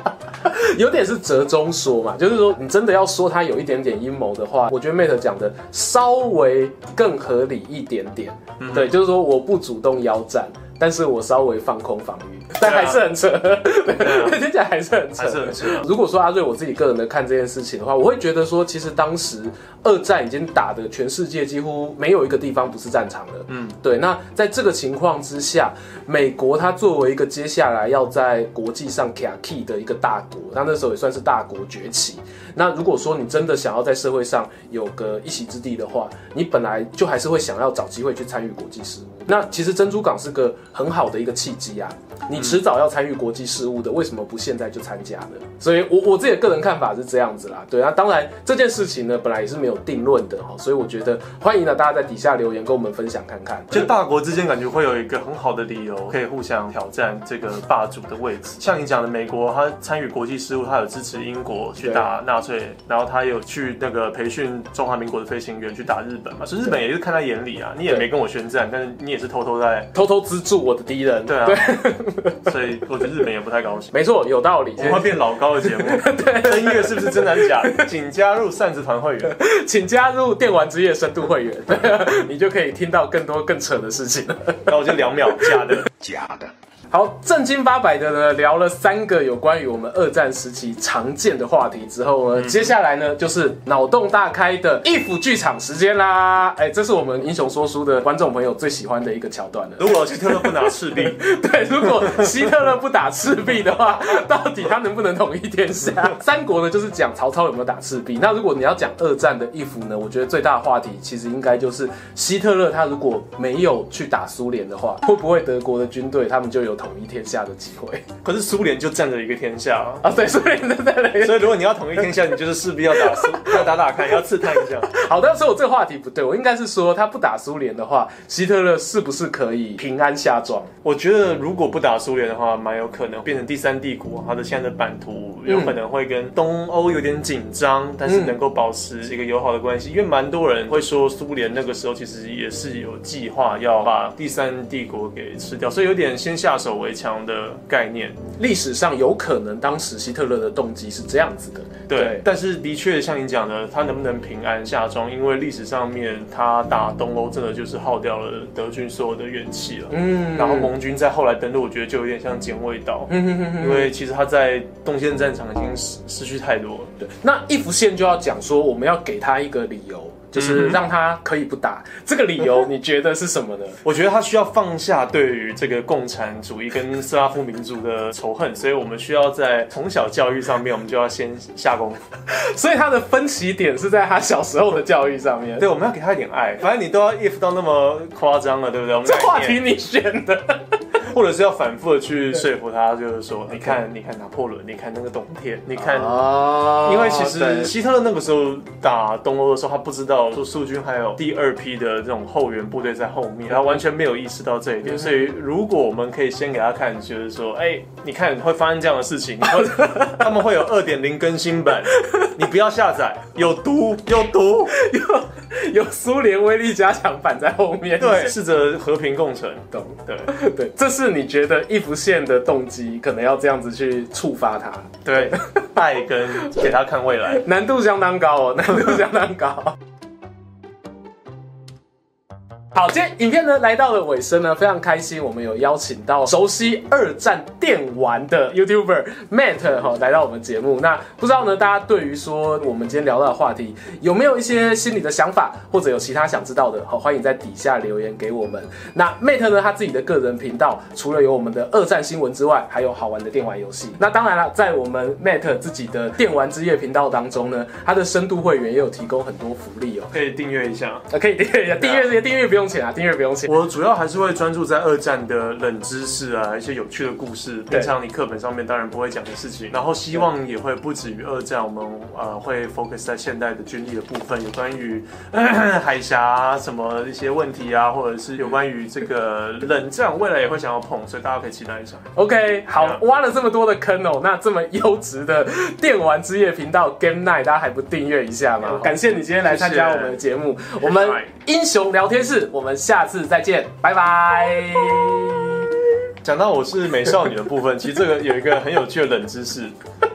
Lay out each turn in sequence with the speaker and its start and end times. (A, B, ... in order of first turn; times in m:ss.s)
0:00.4-0:53.9 A
0:08.6-0:08.9 B
0:12.6-0:13.0 B
0:13.9-0:14.4 B
0:15.2-0:15.9 B
0:23.5-0:23.8 B
0:42.3-0:42.6 B
0:53.7-1:09.9 B
1:01.8-1:02.1 A
1:09.9-1:12.5 A
1:11.3-1:11.8 B
1:12.4-1:13.9 B
1:13.9-1:17.8 A
1:14.8-1:19.4 B
1:19.3-1:24.7 A
1:24.6-1:25.9 B
1:26.9-1:58.0 A
1:32.4-1:32.7 B
1:39.8-1:41.2 B
1:41.9-1:42.5 B
1:58.2-2:00.0 B
2:00.0-2:01.5 A
2:01.2-2:04.9 B
2:02.9-2:03.7 A
2:04.6-2:10.7 A
2:10.8-2:28.2 B
2:15.5-2:15.8 A
2:18.1-2:18.3 A
2:28.4-2:32.2 A
2:31.9-2:46.9 B
2:39.9-2:40.7 A
2:43.1-2:43.9 A
2:47.0-2:53.8 A
2:50.3-2:50.8 B
2:53.8-3:02.0 B
3:02.3-3:05.6 A
3:05.6-3:09.6 B
3:09.0-3:10.6 A
3:11.0-3:34.8 B
3:15.8-3:17.7 A
3:24.9-3:25.2 A
3:34.7-3:38.3 A
3:38.0-3:40.3 B
3:39.7-3:45.6 A
3:45.0-3:47.4 B
3:47.4-3:49.8 A
3:52.7-4:20.1 A
4:20.1-4:21.1 B
4:21.1-4:23.5 A
4:21.8-4:22.1 B
4:23.4-4:42.1 B
4:42.2-4:55.7 A
4:42.7-4:43.0 B
4:48.6-4:50.2 B
4:50.8-4:51.3 B
4:56.2-4:59.7 B